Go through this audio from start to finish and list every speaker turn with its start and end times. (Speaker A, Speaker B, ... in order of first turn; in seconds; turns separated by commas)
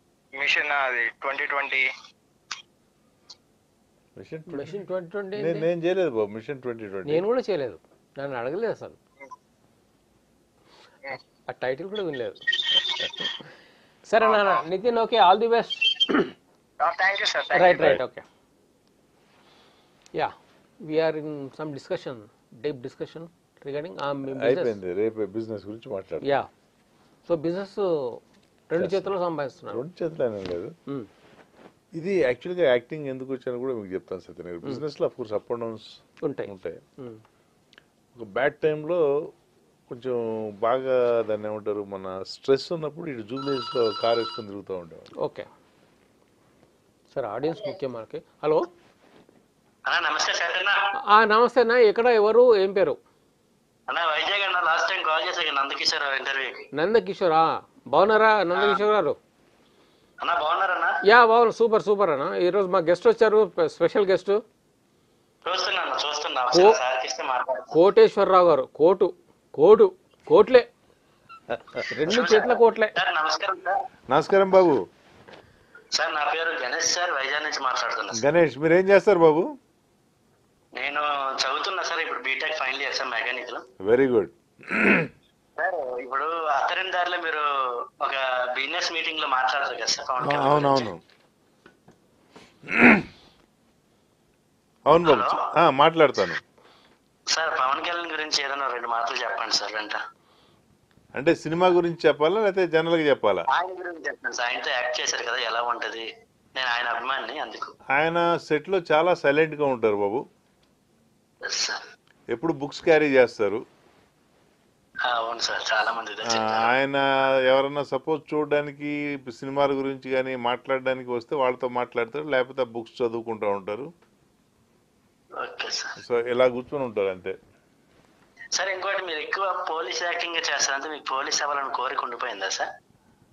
Speaker A: 0.3-1.8, Speaker B: 4.2-4.8, Speaker C: 4.5-5.7, Speaker B: 5.3-7.2, Speaker C: 7.0-8.9, Speaker C: 11.5-12.4, Speaker C: 14.1-16.3, Speaker A: 14.2-14.6, Speaker A: 16.8-17.9, Speaker C: 17.5-18.2, Speaker C: 20.1-24.8, Speaker B: 24.3-26.4, Speaker C: 26.2-26.5, Speaker C: 27.3-29.8, Speaker B: 28.8-29.1, Speaker B: 29.7-30.7, Speaker B: 31.9-36.8, Speaker C: 36.2-37.2, Speaker B: 38.1-39.0, Speaker B: 39.9-45.1, Speaker C: 45.2-45.5, Speaker C: 47.1-48.6, Speaker D: 49.9-50.8, Speaker C: 51.1-53.0, Speaker D: 53.9-56.6, Speaker C: 56.7-59.2, Speaker D: 58.5-58.8, Speaker D: 60.2-60.9, Speaker C: 61.0-64.4, Speaker D: 65.4-67.7, Speaker C: 66.5-66.8, Speaker C: 67.7-70.7, Speaker C: 71.9-72.9, Speaker D: 72.0-73.7, Speaker B: 74.1-74.8, Speaker D: 75.9-78.2, Speaker B: 78.1-79.5, Speaker D: 80.7-83.7, Speaker B: 83.8-85.1, Speaker D: 85.6-87.4, Speaker D: 88.0-90.9, Speaker B: 90.2-91.0, Speaker B: 92.7-93.1, Speaker B: 94.9-96.4, Speaker D: 95.0-95.5, Speaker D: 97.3-100.0, Speaker B: 101.1-103.5, Speaker D: 103.5-106.0, Speaker D: 106.5-107.8, Speaker B: 107.9-110.2, Speaker D: 111.4-111.8, Speaker B: 112.3-113.6, Speaker D: 115.1-116.7, Speaker B: 116.2-123.9, Speaker D: 125.4-125.9, Speaker B: 126.0-127.4, Speaker D: 128.6-132.7